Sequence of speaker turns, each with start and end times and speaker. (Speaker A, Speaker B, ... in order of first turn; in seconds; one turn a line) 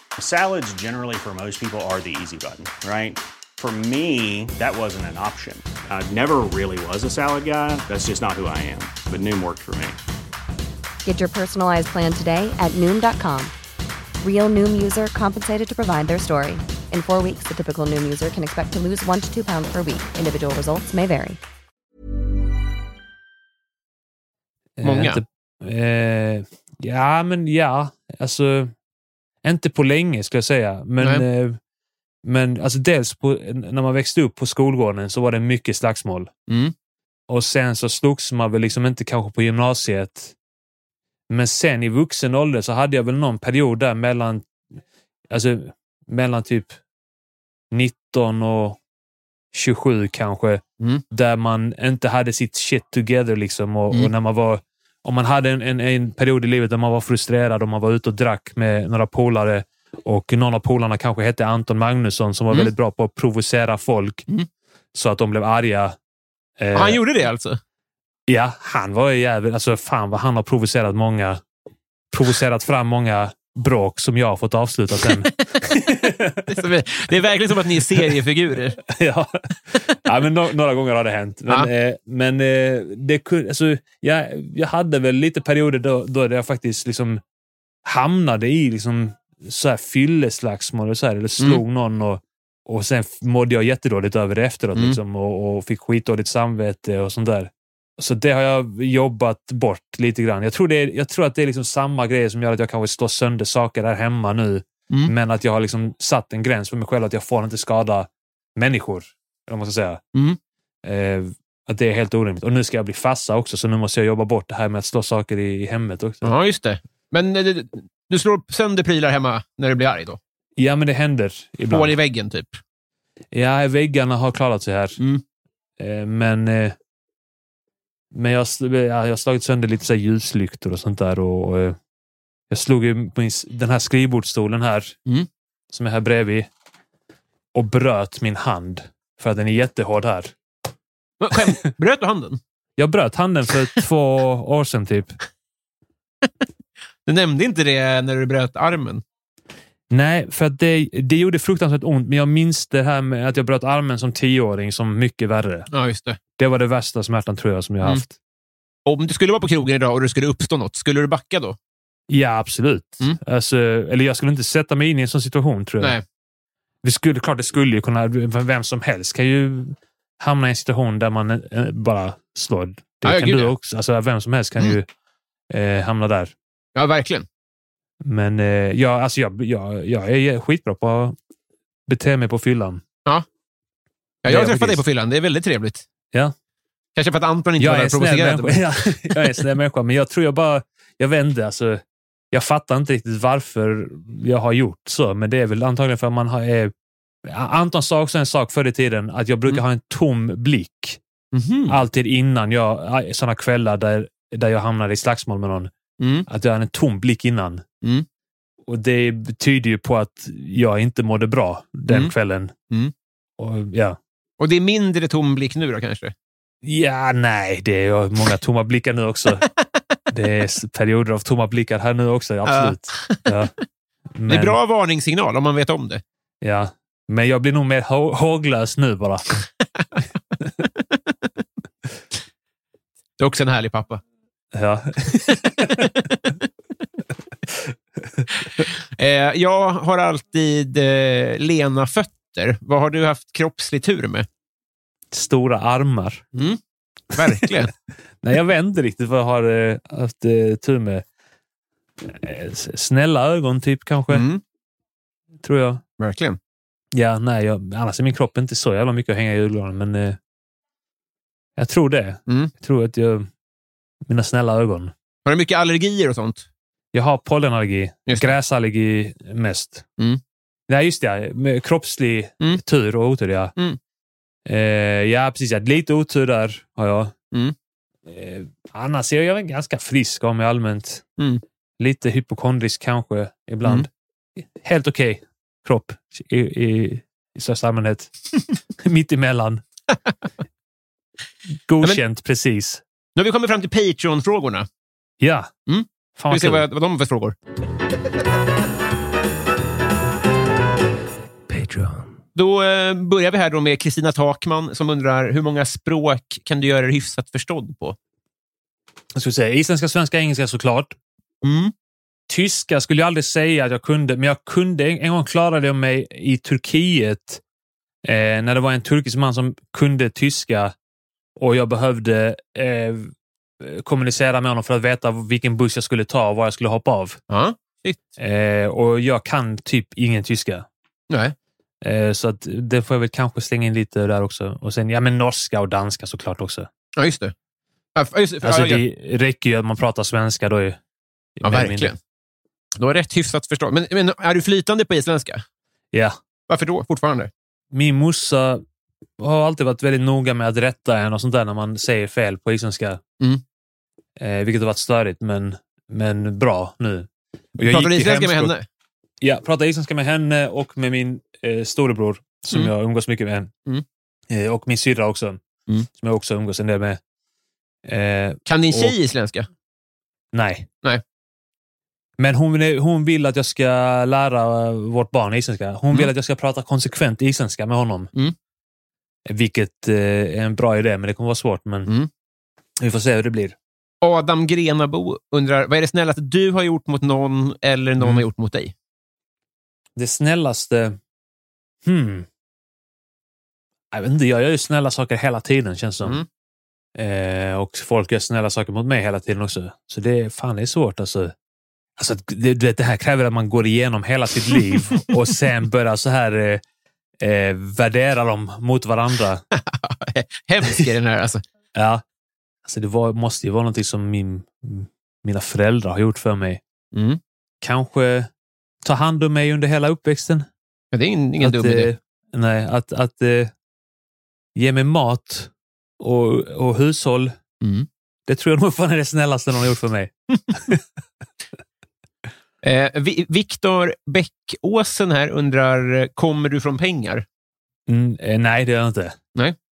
Speaker A: 0.2-10.0
Speaker B: 11.1-13.5
Speaker B: 14.2-21.4
Speaker C: 24.8-28.7
Speaker D: 24.8-25.2
Speaker C: 29.4-31.6
Speaker C: 32.2-36.3
Speaker D: 36.5-36.7
Speaker C: 37.3-40.3
Speaker C: 41.3-44.5
Speaker C: 45.3-46.8
Speaker C: 47.7-48.8
Speaker C: 49.5-64.2
Speaker C: 64.9-66.0
Speaker C: 66.6-67.0
Speaker D: 66.7-67.6
Speaker C: 68.3-71.4
Speaker C: 72.1-76.5
Speaker D: 76.5-78.8
Speaker C: 78.9-87.2
Speaker C: 87.8-110.0
Speaker D: 94.7-95.0
Speaker C: 110.8-116.3
Speaker D: 116.2-120.2
Speaker C: 120.6-121.9
Speaker D: 121.7-122.6
Speaker C: 123.3-125.0
Speaker C: 125.8-126.8
Speaker C: 128.1-131.8
Speaker C: 132.5-135.0
Speaker C: 135.7-136.5
Speaker C: 137.6-140.3
Speaker D: 141.2-142.4
Speaker C: 142.8-145.2
Speaker D: 147.1-149.0
Speaker C: 149.9-155.7
Speaker D: 155.7-156.2
Speaker C: 156.4-158.1
Speaker D: 158.9-161.6
Speaker C: 162.1-166.0
Speaker C: 166.8-174.9
Speaker D: 173.0-173.5
Speaker C: 175.5-176.3
Speaker D: 176.8-177.2
Speaker C: 178.0-181.2
Speaker C: 181.9-182.8
Speaker D: 184.2-185.8
Speaker C: 184.2-184.8
Speaker D: 186.9-189.5
Speaker C: 187.6-196.7
Speaker C: 197.2-201.0
Speaker D: 201.3-201.8
Speaker C: 201.7-205.7
Speaker D: 206.0-206.3
Speaker C: 206.3-207.6
Speaker C: 208.7-212.5
Speaker D: 211.9-212.1
Speaker C: 213.4-214.0
Speaker D: 214.4-216.1
Speaker C: 216.6-219.4
Speaker C: 220.1-223.5
Speaker D: 222.4-223.3
Speaker C: 224.1-224.6
Speaker D: 224.3-226.0
Speaker C: 226.4-229.4
Speaker D: 233.2-234.0
Speaker C: 234.5-235.9
Speaker D: 235.4-236.3
Speaker D: 238.6-244.2
Speaker C: 245.1-246.2
Speaker D: 246.3-246.6
Speaker D: 247.1-247.7
Speaker C: 248.2-251.0
Speaker C: 252.0-254.3
Speaker D: 254.1-254.4
Speaker C: 255.4-255.8
Speaker D: 256.0-256.4
Speaker C: 256.9-260.2
Speaker C: 261.6-263.3
Speaker C: 264.1-264.9
Speaker D: 265.2-266.4
Speaker C: 266.9-269.8
Speaker C: 270.7-273.5
Speaker C: 274.4-277.1
Speaker C: 278.1-281.1
Speaker C: 281.8-283.9
Speaker C: 284.6-288.1
Speaker C: 288.8-289.6
Speaker C: 291.7-292.8
Speaker D: 293.1-294.7
Speaker C: 295.2-295.5
Speaker D: 295.7-297.4
Speaker C: 296.2-296.6
Speaker C: 301.5-302.0
Speaker D: 302.3-307.9
Speaker C: 309.1-310.9
Speaker D: 311.4-311.7
Speaker C: 312.3-317.4
Speaker C: 318.1-320.7
Speaker C: 321.4-327.2
Speaker D: 327.3-328.0
Speaker C: 328.2-330.6
Speaker D: 331.1-331.3
Speaker C: 331.8-336.7
Speaker D: 336.9-337.3
Speaker D: 337.9-338.8
Speaker C: 338.4-340.8
Speaker C: 341.4-341.9
Speaker D: 341.4-341.9
Speaker D: 342.8-345.4
Speaker D: 346.5-347.3
Speaker C: 347.7-348.6
Speaker C: 349.2-353.0
Speaker C: 354.2-357.1
Speaker C: 357.6-358.5
Speaker D: 357.6-358.6
Speaker C: 359.2-363.5
Speaker C: 364.3-365.4
Speaker C: 365.9-367.0
Speaker C: 367.9-368.9
Speaker D: 368.5-369.5
Speaker C: 370.3-370.7
Speaker C: 372.2-378.1
Speaker C: 379.2-381.9
Speaker C: 382.8-383.6
Speaker D: 384.0-388.7
Speaker C: 388.0-388.2
Speaker C: 389.9-391.0
Speaker C: 391.8-392.3
Speaker C: 393.9-396.2
Speaker C: 397.0-401.3
Speaker C: 402.0-406.6
Speaker C: 407.2-409.4
Speaker D: 409.5-411.4
Speaker C: 411.7-412.0
Speaker C: 412.6-416.6
Speaker D: 416.9-417.2
Speaker C: 417.6-418.3
Speaker C: 418.8-420.5
Speaker D: 420.9-421.9
Speaker C: 421.4-423.5
Speaker C: 424.6-427.3
Speaker D: 427.6-427.9
Speaker C: 428.3-430.8
Speaker D: 432.6-437.2
Speaker C: 437.9-439.2